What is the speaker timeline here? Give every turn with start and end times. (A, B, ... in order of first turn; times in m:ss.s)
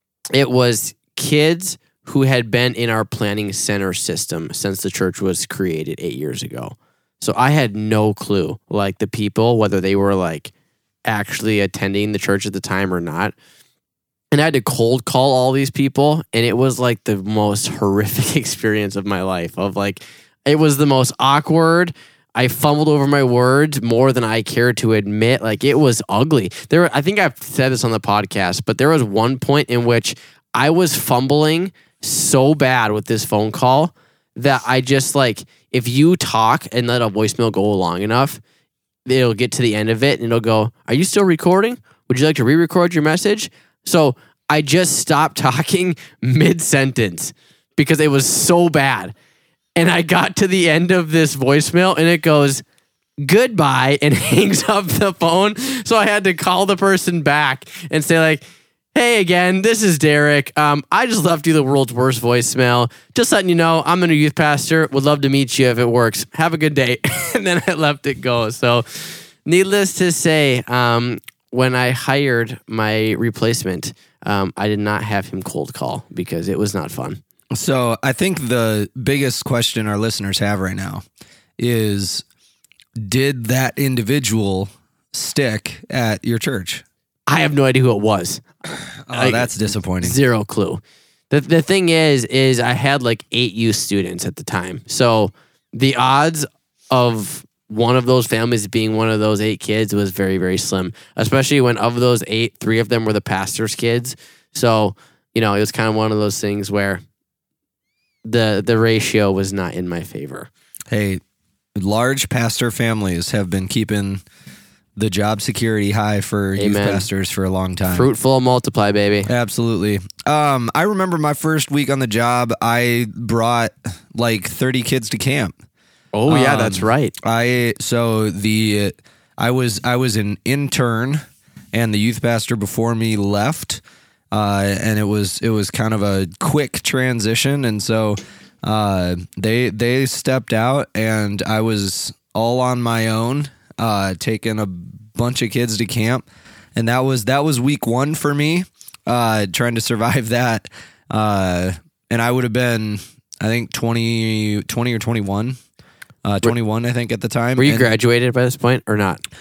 0:00.3-0:10.5 A
0:11.1-0:13.3 A
0:14.3-0:38.4 A
0:39.0-0:49.1 A
0:49.8-0:52.6 A
0:53.2-1:17.2 A
1:17.5-1:21.0 B
1:21.6-1:22.2 B
1:23.0-1:26.8 B
1:27.3-1:28.4 A
1:29.0-1:30.2 B
1:29.1-1:47.0 A
1:48.2-1:50.5 A
1:50.9-1:51.2 B
1:51.8-1:54.2 B
1:55.0-1:58.1 B
1:56.6-1:57.1 A
1:57.9-1:59.3 A
1:59.3-2:05.5 B
2:06.1-2:07.1 A
2:06.3-2:11.2 B
2:11.7-2:13.8 B
2:14.3-2:35.6 B
2:36.2-2:37.9 B
2:37.6-2:39.2 A